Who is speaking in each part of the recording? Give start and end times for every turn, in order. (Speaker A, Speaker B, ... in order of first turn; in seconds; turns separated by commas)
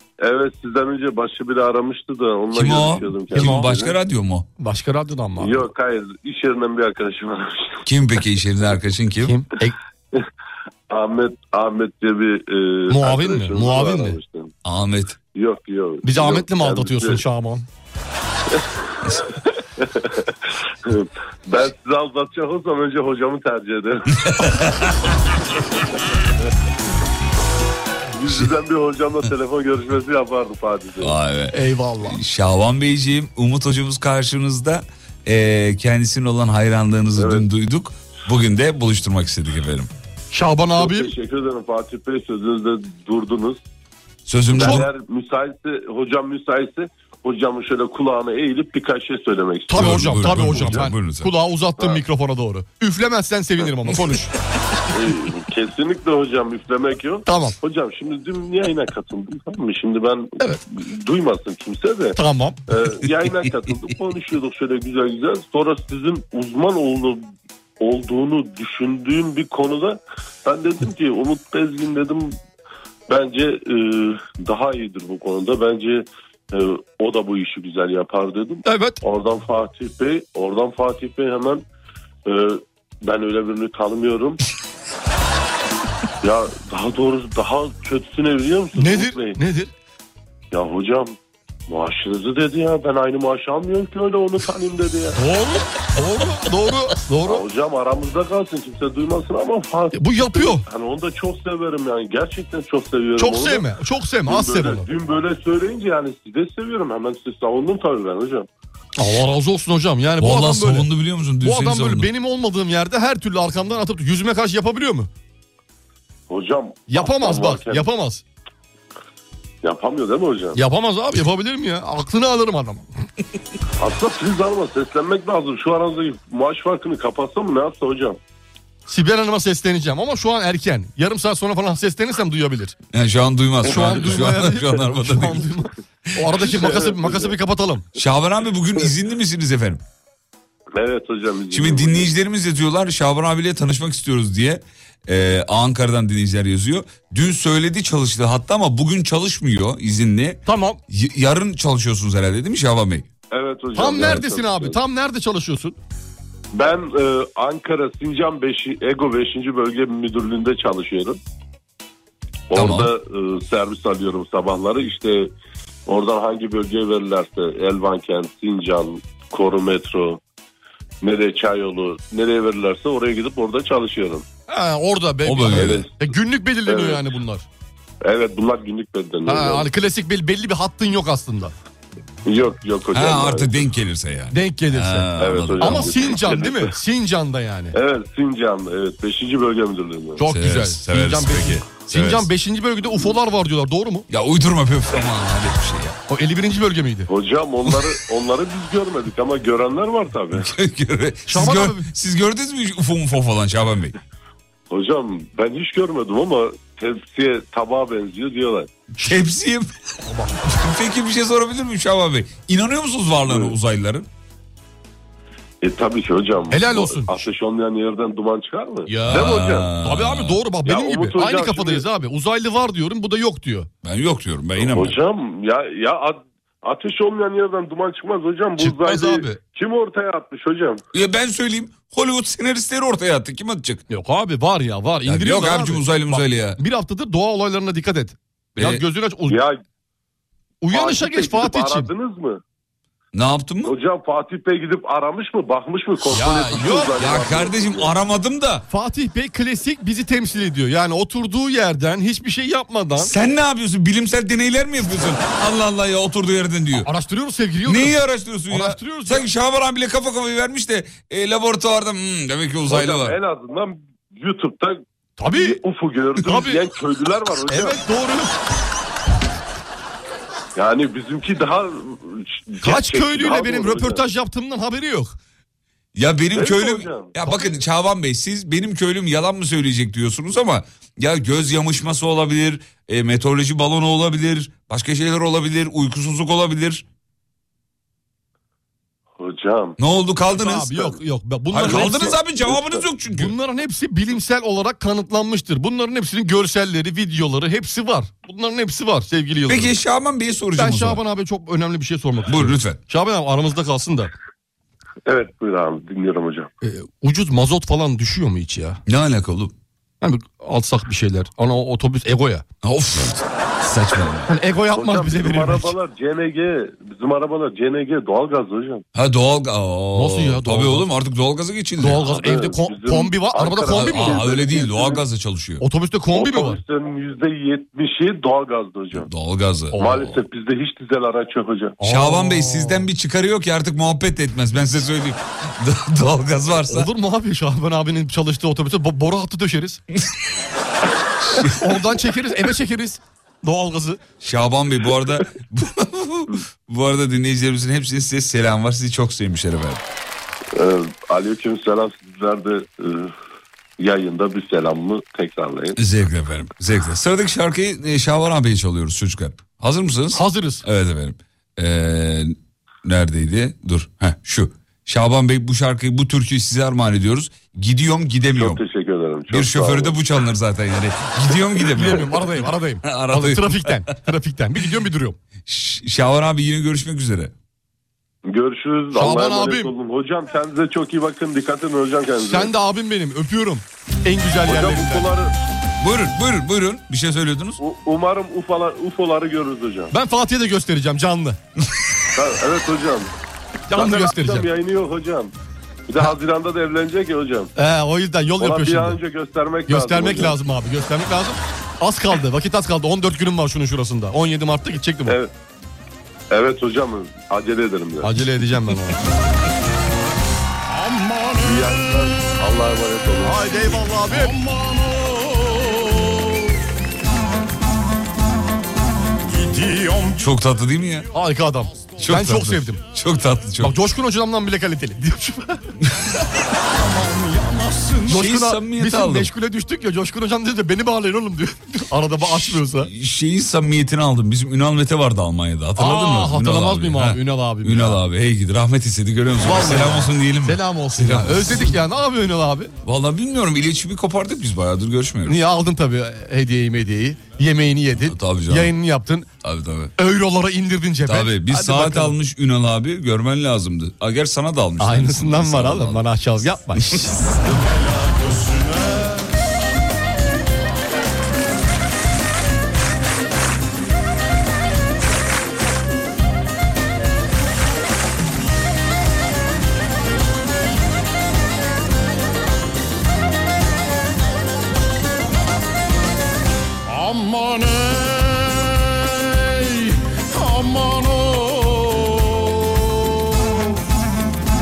Speaker A: 0.2-4.0, Speaker B: 2.5-4.5, Speaker C: 3.4-3.7, Speaker C: 4.6-5.6, Speaker A: 5.4-7.8, Speaker B: 7.8-9.3, Speaker C: 9.2-9.8, Speaker A: 10.9-14.5, Speaker C: 12.9-14.2, Speaker B: 14.6-15.2, Speaker A: 15.3-17.2, Speaker C: 16.0-17.6, Speaker A: 18.5-24.5, Speaker B: 24.3-24.9, Speaker A: 28.1-31.1, Speaker B: 31.0-39.9, Speaker C: 31.5-32.2, Speaker A: 37.1-37.5, Speaker C: 40.3-41.1, Speaker A: 40.8-43.6, Speaker B: 44.3-44.9, Speaker A: 44.5-50.9, Speaker C: 44.6-44.8, Speaker C: 49.7-54.3, Speaker B: 49.7-51.3, Speaker A: 54.9-62.2, Speaker C: 57.3-57.5, Speaker C: 62.1-62.6, Speaker A: 62.7-67.2, Speaker A: 67.8-72.4, Speaker A: 73.1-81.6, Speaker C: 78.6-79.0, Speaker A: 82.2-84.4, Speaker A: 86.2-89.4, Speaker C: 88.8-89.7, Speaker A: 90.5-91.2, Speaker A: 91.7-95.2, Speaker C: 95.1-97.4, Speaker A: 97.2-103.7, Speaker C: 99.9-100.6, Speaker C: 103.2-104.8, Speaker A: 104.2-108.5, Speaker C: 109.0-110.9, Speaker B: 110.2-112.1, Speaker C: 111.4-115.1, Speaker A: 116.3-117.9, Speaker C: 116.9-118.2, Speaker A: 119.6-120.6, Speaker C: 120.5-123.0, Speaker A: 123.8-128.2, Speaker C: 128.9-132.7, Speaker B: 132.9-135.5, Speaker C: 133.6-137.8, Speaker A: 133.7-134.1, Speaker A: 136.5-137.4, Speaker B: 138.0-139.8, Speaker A: 140.7-142.1, Speaker B: 141.5-153.1, Speaker C: 150.4-150.8, Speaker A: 153.3-154.8, Speaker C: 153.7-155.8, Speaker A: 156.5-161.2, Speaker A: 162.5-165.3, Speaker B: 162.6-162.9, Speaker A: 165.8-170.2, Speaker A: 171.0-174.2, Speaker C: 174.5-177.4, Speaker B: 175.2-175.8, Speaker A: 175.5-175.9, Speaker A: 176.7-177.0, Speaker A: 178.0-179.7, Speaker C: 179.2-181.5, Speaker A: 182.2-183.7, Speaker B: 182.9-186.2, Speaker C: 184.3-187.7, Speaker A: 185.2-186.8, Speaker A: 187.7-190.2, Speaker C: 190.2-194.1, Speaker B: 190.2-192.3, Speaker B: 194.1-195.9, Speaker C: 196.1-197.1, Speaker A: 197.1-200.5, Speaker B: 200.4-203.9, Speaker C: 201.3-201.9, Speaker A: 204.7-208.7, Speaker B: 209.0-209.7, Speaker C: 210.1-210.5, Speaker B: 210.5-214.1, Speaker A: 213.2-213.6, Speaker A: 215.6-219.7, Speaker C: 216.5-217.1, Speaker C: 218.9-223.7, Speaker B: 219.1-220.4, Speaker A: 220.6-221.8, Speaker B: 223.8-225.0, Speaker A: 224.6-230.8, Speaker C: 228.6-229.4, Speaker B: 230.9-233.8, Speaker C: 233.9-239.4, Speaker B: 235.1-236.6, Speaker A: 239.3-239.6, Speaker C: 240.6-241.9, Speaker A: 240.7-242.4, Speaker B: 243.1-243.7, Speaker A: 243.6-247.9, Speaker C: 246.1-246.9, Speaker B: 246.9-248.6, Speaker C: 248.7-253.1, Speaker B: 253.0-256.9, Speaker C: 256.8-258.0, Speaker B: 257.6-263.2, Speaker C: 258.5-259.2, Speaker A: 262.7-264.8, Speaker C: 265.2-265.6, Speaker A: 265.3-267.8, Speaker C: 266.2-266.6, Speaker C: 267.5-268.3, Speaker A: 270.6-274.0, Speaker C: 272.6-275.1, Speaker B: 275.9-286.8, Speaker A: 276.3-277.1, Speaker A: 289.2-289.8, Speaker B: 289.8-290.9, Speaker C: 290.3-292.2, Speaker B: 291.5-293.3, Speaker A: 291.6-292.5, Speaker C: 293.0-299.7, Speaker B: 299.5-301.0, Speaker C: 300.6-304.1, Speaker B: 302.3-302.8, Speaker A: 305.1-306.5, Speaker C: 306.6-308.8, Speaker B: 308.9-309.5, Speaker C: 310.0-312.4, Speaker B: 312.6-314.3, Speaker C: 314.3-315.7, Speaker A: 314.7-318.8, Speaker B: 318.9-322.1, Speaker C: 319.9-320.9, Speaker C: 321.8-324.2, Speaker A: 322.0-325.0, Speaker B: 323.7-325.6, Speaker C: 325.6-326.6, Speaker A: 326.1-329.1, Speaker B: 328.9-330.1, Speaker A: 329.8-331.8, Speaker C: 331.8-332.9, Speaker B: 331.8-336.9, Speaker C: 336.7-339.8, Speaker B: 341.2-341.7, Speaker C: 341.4-344.0, Speaker B: 344.2-349.8, Speaker A: 350.5-353.1, Speaker A: 353.8-355.8, Speaker B: 355.8-368.6, Speaker C: 360.1-360.6, Speaker A: 368.3-370.0, Speaker B: 369.3-373.8, Speaker C: 371.6-375.2, Speaker B: 375.4-377.3, Speaker A: 378.3-382.5, Speaker C: 378.9-379.7, Speaker C: 382.2-385.1, Speaker A: 384.4-385.3, Speaker B: 385.8-387.6, Speaker A: 387.6-389.9, Speaker C: 389.9-391.4, Speaker A: 392.1-393.1, Speaker C: 393.7-394.5, Speaker A: 393.7-395.3, Speaker A: 395.9-397.5, Speaker C: 397.6-399.0, Speaker A: 398.4-400.4, Speaker C: 399.7-405.2, Speaker A: 406.3-408.1, Speaker C: 408.0-409.0, Speaker D: 410.7-412.3, Speaker A: 411.4-413.5, Speaker C: 413.2-414.4, Speaker D: 414.1-416.5, Speaker D: 419.2-420.3, Speaker B: 420.2-421.1, Speaker C: 421.1-422.8, Speaker B: 422.0-423.7, Speaker C: 423.6-425.6, Speaker D: 426.7-428.2, Speaker C: 428.1-432.9, Speaker B: 428.1-429.3, Speaker B: 432.3-441.7, Speaker C: 435.8-438.0, Speaker C: 439.4-442.7, Speaker B: 442.8-445.4, Speaker C: 445.2-449.3, Speaker B: 448.0-448.7, Speaker B: 449.4-449.9, Speaker C: 450.0-452.1, Speaker B: 451.1-456.0, Speaker C: 454.8-457.2, Speaker B: 456.8-457.1, Speaker D: 457.3-459.3, Speaker D: 476.9-483.8